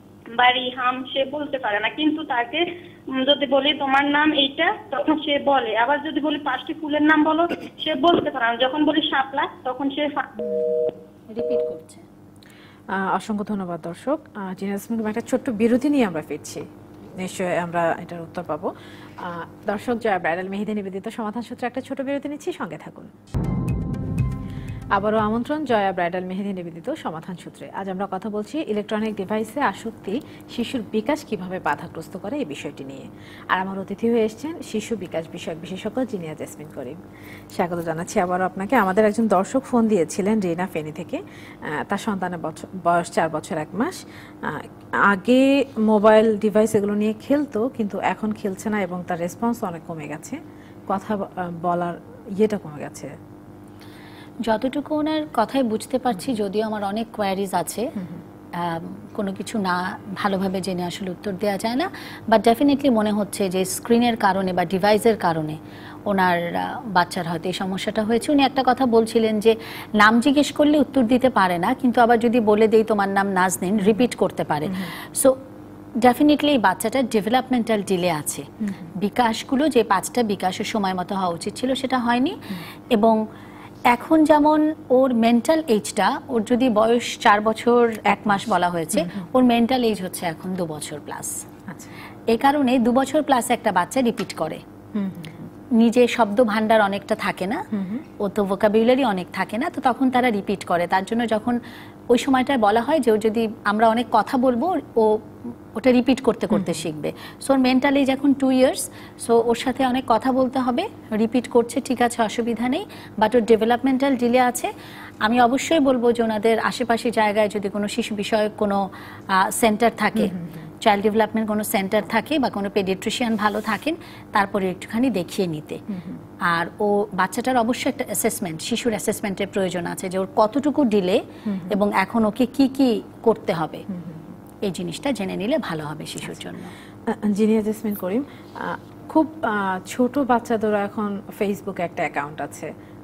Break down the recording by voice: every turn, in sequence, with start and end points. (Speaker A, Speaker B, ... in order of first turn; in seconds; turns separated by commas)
Speaker A: 0.3-10.3, Speaker B: 10.4-12.1, Speaker C: 12.9-16.7, Speaker C: 17.2-23.1, Speaker C: 24.9-37.0, Speaker C: 37.5-53.1, Speaker B: 54.5-57.9, Speaker C: 58.0-58.2, Speaker B: 58.5-75.4, Speaker B: 76.0-83.2, Speaker C: 78.7-78.9, Speaker B: 83.9-91.4, Speaker C: 88.1-88.4, Speaker C: 88.9-89.3, Speaker C: 91.7-92.0, Speaker B: 92.3-94.6, Speaker C: 95.0-95.5, Speaker B: 95.8-97.7, Speaker C: 97.7-98.0, Speaker B: 98.2-101.6, Speaker B: 102.1-105.2, Speaker B: 105.8-114.7, Speaker C: 106.5-106.8, Speaker B: 115.2-125.8, Speaker C: 120.2-120.6, Speaker C: 125.9-126.2, Speaker B: 126.5-133.8, Speaker C: 131.5-131.8, Speaker C: 133.9-134.3, Speaker B: 134.6-136.7, Speaker C: 137.1-142.7